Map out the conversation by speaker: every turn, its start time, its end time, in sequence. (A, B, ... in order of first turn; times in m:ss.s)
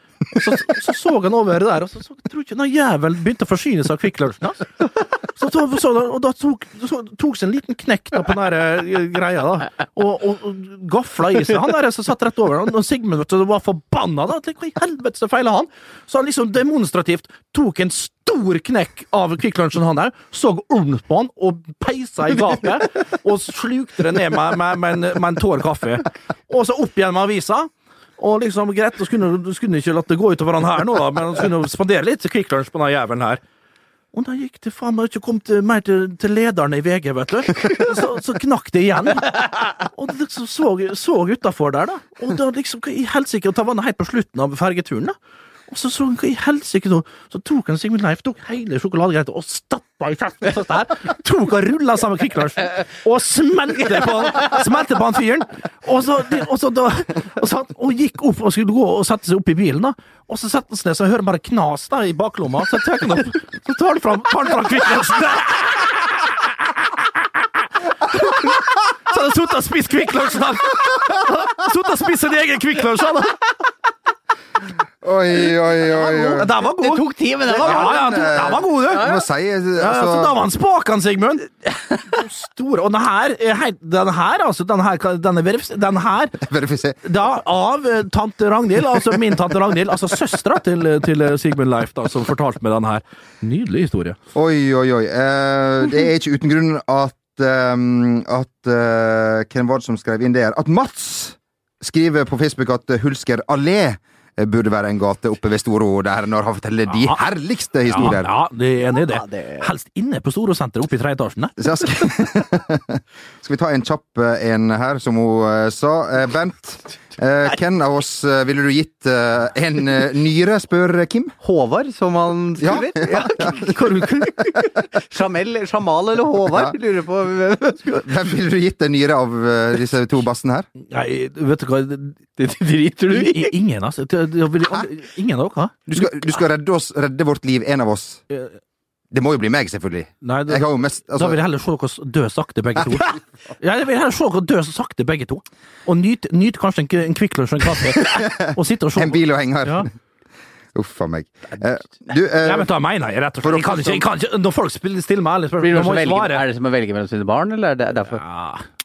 0:00.3-0:33.4 A
0:34.1-0:45.2 A
0:45.7-1:06.4 A
1:08.1-1:13.4 A
1:15.0-1:16.5 B
1:15.8-1:19.2 C
1:16.4-1:19.1 A
1:17.5-1:20.4 B
1:19.8-1:21.5 A
1:21.7-1:22.0 C
1:22.1-1:26.4 A
1:26.4-1:27.0 B
1:27.0-1:34.2 A
1:34.4-1:48.3 B
1:47.9-1:51.6 A
1:49.1-1:49.7 C
1:51.6-2:01.4 B
2:01.4-2:08.1 C
2:02.6-2:03.7 B
2:08.0-2:10.7 B
2:10.9-2:12.2 A
2:12.4-2:13.5 C
2:13.1-2:16.3 A
2:15.9-2:18.2 B
2:18.3-2:18.6 A
2:19.1-2:21.4 B
2:20.2-2:29.9 A
2:27.9-2:29.9 B
2:30.8-2:32.7 B
2:32.4-2:36.4 A
2:33.4-2:34.0 B
2:35.6-2:38.2 C
2:38.1-2:38.6 A